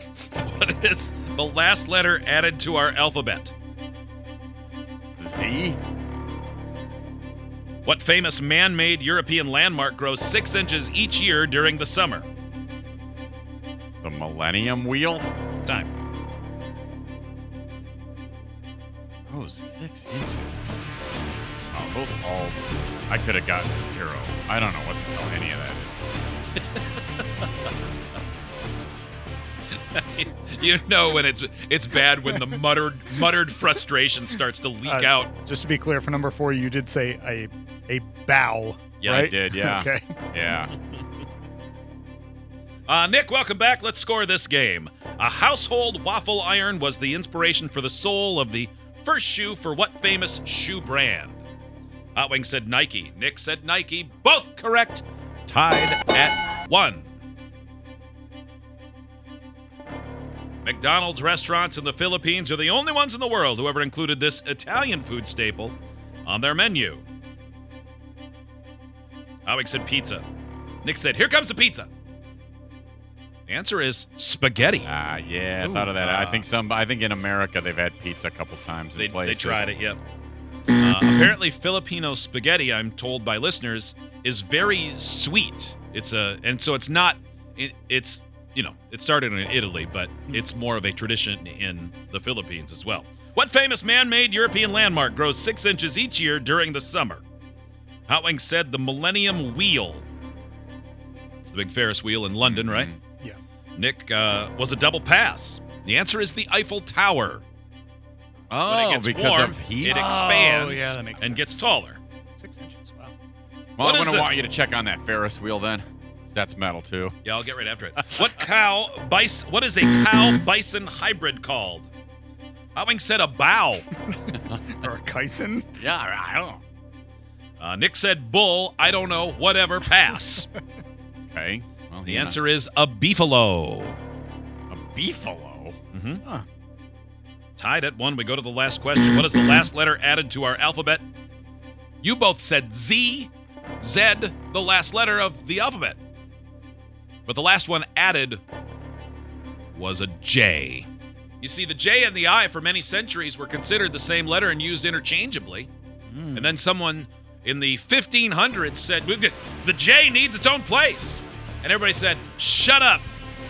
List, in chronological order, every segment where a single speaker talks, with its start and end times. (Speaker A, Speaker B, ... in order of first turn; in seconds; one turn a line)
Speaker A: 0.4-3.5
Speaker B: 5.2-5.8
Speaker A: 7.8-12.3
Speaker B: 14.0-15.3
Speaker B: 19.3-20.6
Speaker B: 21.7-26.0
Speaker A: 29.9-35.3
Speaker C: 34.8-40.0
Speaker A: 39.0-39.2
Speaker B: 39.0-40.7
Speaker A: 42.9-51.4
Speaker A: 52.1-57.1
Speaker A: 60.6-67.0
Speaker A: 69.5-70.2
Speaker A: 70.8-71.9
Speaker A: 73.5-74.9
Speaker B: 74.8-79.7
Speaker A: 75.6-76.5
Speaker A: 79.0-80.0
Speaker A: 80.7-97.2
Speaker A: 98.1-100.1
Speaker A: 101.4-102.9
Speaker B: 102.4-103.0
Speaker A: 103.8-107.4
Speaker B: 108.5-110.2
Speaker A: 108.7-112.0
Speaker C: 109.8-111.7
Speaker C: 112.3-113.1
Speaker B: 113.8-117.3
Speaker A: 113.8-114.3
Speaker A: 117.2-121.9
Speaker B: 118.0-118.5
Speaker A: 122.7-123.9
Speaker B: 124.3-124.6
Speaker C: 124.8-125.7
Speaker B: 125.8-126.6
Speaker A: 127.6-130.4
Speaker B: 131.3-132.4
Speaker A: 132.1-134.0
Speaker B: 134.7-135.8
Speaker A: 135.9-136.2
Speaker A: 137.6-141.1
Speaker A: 142.0-146.0
Speaker A: 147.2-148.4
Speaker A: 149.7-150.9
Speaker A: 151.4-155.7
Speaker A: 156.3-163.1